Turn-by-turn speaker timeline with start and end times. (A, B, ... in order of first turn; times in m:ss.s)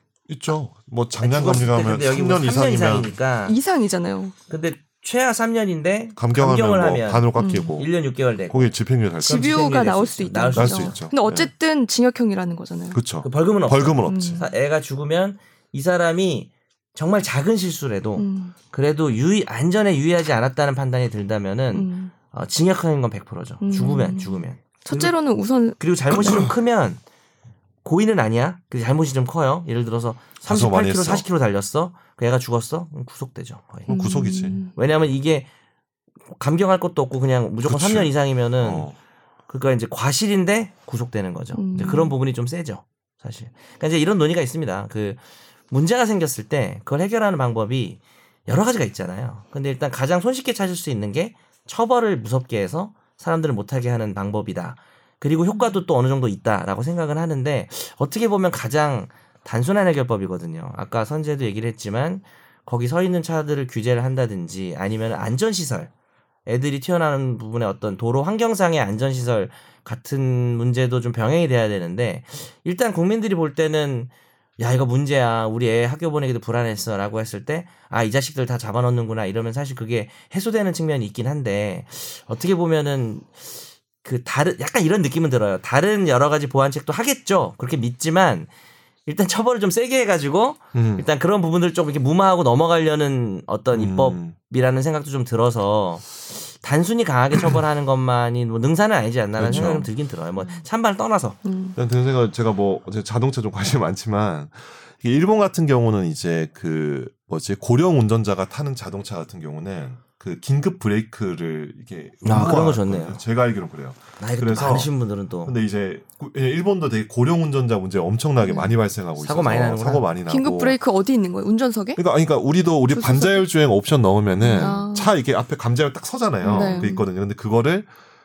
0:00.3-0:03.1 A
0:01.2-0:03.6 B
0:02.4-0:04.3 C
0:04.5-0:11.0 B
0:06.2-0:07.9 A
0:07.4-0:07.8 C
0:08.5-0:09.6 A
0:09.2-0:13.0 C
0:10.5-0:11.5 A
0:12.9-0:14.4 A
0:13.2-0:25.2 B
0:14.0-0:14.5 C
0:18.2-0:18.5 C
0:21.7-0:22.1 C
0:23.6-0:26.4 C
0:25.8-0:27.0 B
0:26.2-0:26.5 A
0:27.8-0:34.0 B
0:30.4-0:31.2 A
0:33.9-0:34.6 A
0:33.9-0:34.7 C
0:34.6-0:35.5 B
0:36.3-0:38.9 B
0:37.6-0:38.9 A
0:39.5-1:05.9 B
0:41.6-0:42.2 C
1:06.5-1:28.5 B
1:29.0-1:41.4 B
1:30.7-1:31.0 A
1:33.7-1:34.3 A
1:39.4-1:39.9 A
1:41.4-1:41.8 C
1:41.8-1:54.9 A
1:52.2-1:53.2 B
1:54.2-1:55.5 B
1:55.4-2:00.8 A
1:58.4-1:58.7 C
1:59.2-2:00.1 B
2:00.3-2:02.0 C
2:02.0-2:07.9 A
2:02.9-2:03.4 C
2:04.5-2:05.1 C
2:06.4-2:07.0 C
2:06.5-2:06.9 B